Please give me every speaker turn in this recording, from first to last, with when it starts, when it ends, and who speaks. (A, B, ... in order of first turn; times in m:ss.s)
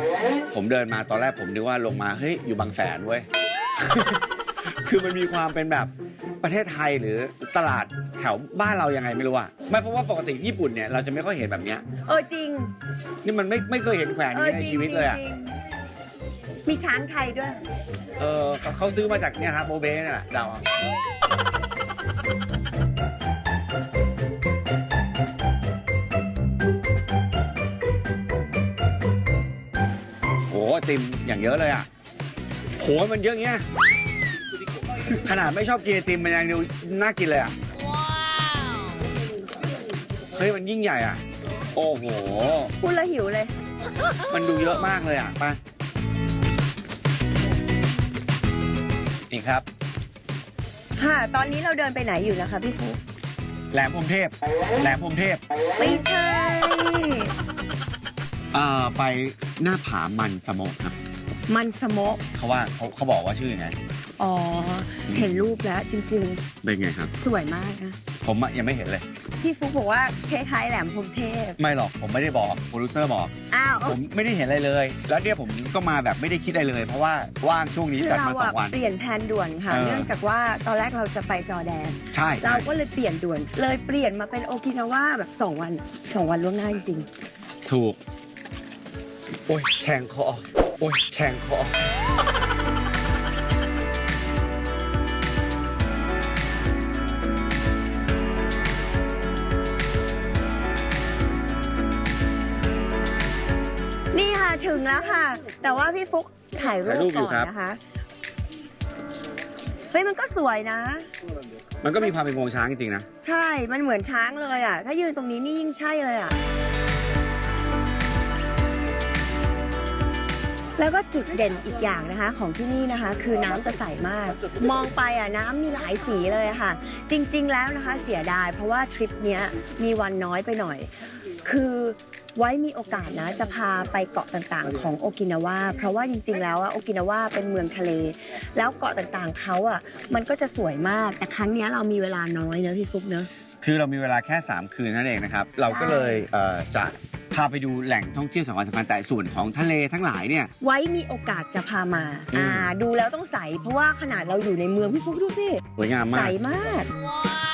0:00.5-0:05.9 A
0:06.4-0:11.8 A
0:12.0-0:12.7 B
0:13.2-0:15.2 A
0:14.3-0:15.5 B
0:16.6-0:17.6 B
0:18.2-0:20.8 A
0:30.5-0:31.9 A
0:32.8-0:33.6 A
0:35.0-0:37.5 A
0:40.3-0:41.2 A
0:41.7-0:42.7 A
0:42.8-0:43.5 B
0:44.3-0:45.6 A
0:49.3-0:49.6 A
0:51.0-0:53.0 B
0:53.7-0:55.4 A
0:55.8-0:57.3 B
0:58.5-1:01.0 A
1:01.5-1:02.2 B
1:02.3-1:03.8 A
1:04.2-1:06.4 B
1:05.1-1:05.5 A
1:06.6-1:07.1 A
1:07.1-1:08.0 B
1:08.2-1:09.0 A
1:09.4-1:11.6 B
1:11.6-1:13.3 A
1:13.5-1:14.0 B
1:13.8-1:18.8 A
1:18.0-1:27.1 B
1:19.7-1:20.1 A
1:22.1-1:22.7 A
1:27.7-1:28.0 A
1:29.5-1:31.8 A
1:44.1-1:47.8 B
1:46.8-1:47.5 A
1:49.9-1:51.1 B
1:51.8-1:53.1 A
1:53.2-1:56.4 B
2:00.8-2:10.9 B
2:11.4-2:23.3 B
2:23.6-2:30.5 A
2:25.7-2:26.3 B
2:30.6-2:36.9 B
2:32.3-2:32.7 A
2:35.8-2:36.4 A